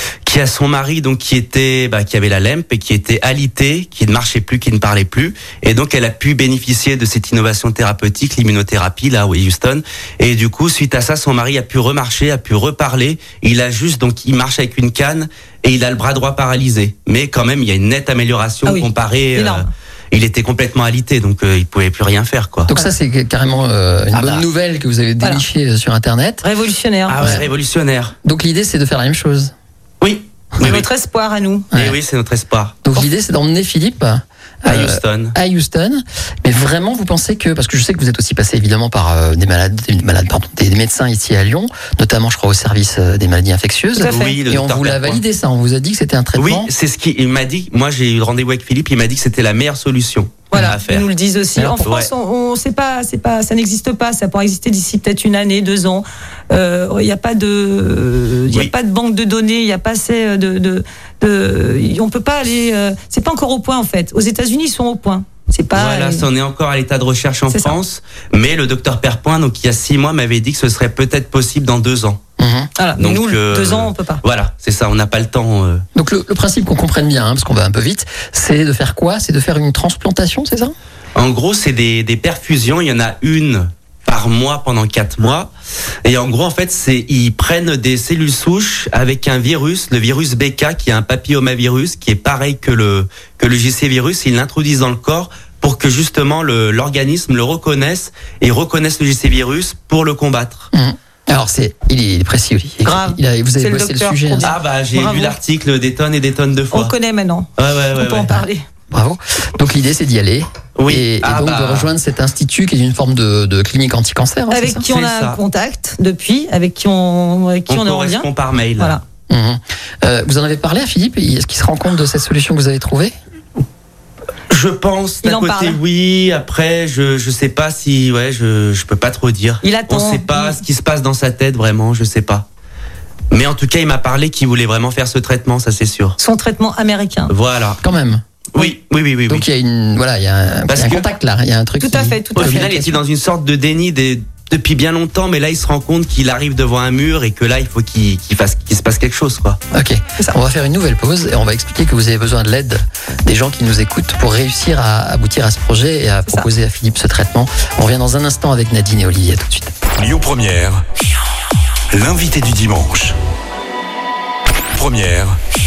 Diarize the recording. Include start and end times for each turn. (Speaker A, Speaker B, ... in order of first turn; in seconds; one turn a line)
Speaker A: 0.2-22.7
Speaker B: 18.6-19.7
Speaker C: 22.7-26.4
Speaker A: 24.1-24.4
Speaker B: 26.4-27.4
Speaker A: 27.1-28.1
Speaker C: 27.2-27.4
Speaker C: 28.2-29.5
Speaker A: 30.0-30.9
Speaker B: 30.6-31.7
Speaker C: 31.7-32.0
Speaker A: 31.7-32.8
Speaker C: 32.8-46.7
Speaker A: 34.6-35.3
Speaker B: 43.9-44.4
Speaker A: 44.1-45.2
Speaker A: 46.4-51.1
Speaker B: 50.5-66.3
Speaker C: 51.5-51.8
Speaker A: 51.8-52.1
Speaker A: 65.7-72.2
Speaker B: 67.5-67.8
Speaker C: 72.4-72.7
Speaker B: 72.8-74.2
Speaker A: 73.0-75.8
Speaker C: 75.9-80.7
Speaker A: 81.1-85.5
Speaker A: 86.0-100.7
Speaker C: 100.7-104.5
Speaker B: 102.8-105.4
Speaker A: 104.4-106.9
Speaker B: 106.7-108.6
Speaker A: 107.6-108.4
Speaker C: 108.9-114.8
Speaker A: 110.8-111.9
Speaker B: 114.5-119.0
Speaker A: 114.8-115.4
Speaker A: 117.7-119.0
Speaker C: 119.3-123.1
Speaker A: 124.5-132.4
Speaker B: 125.2-125.8
Speaker B: 129.6-130.6
Speaker A: 133.3-136.2
Speaker B: 136.2-137.3
Speaker A: 137.3-137.8
Speaker C: 137.8-138.2
Speaker A: 138.5-139.5
Speaker C: 139.3-143.0
Speaker A: 140.7-141.1
Speaker B: 141.8-142.8
Speaker A: 142.3-149.6
Speaker C: 149.7-159.7
Speaker D: 159.9-160.8
Speaker D: 161.9-163.2
Speaker D: 164.7-165.4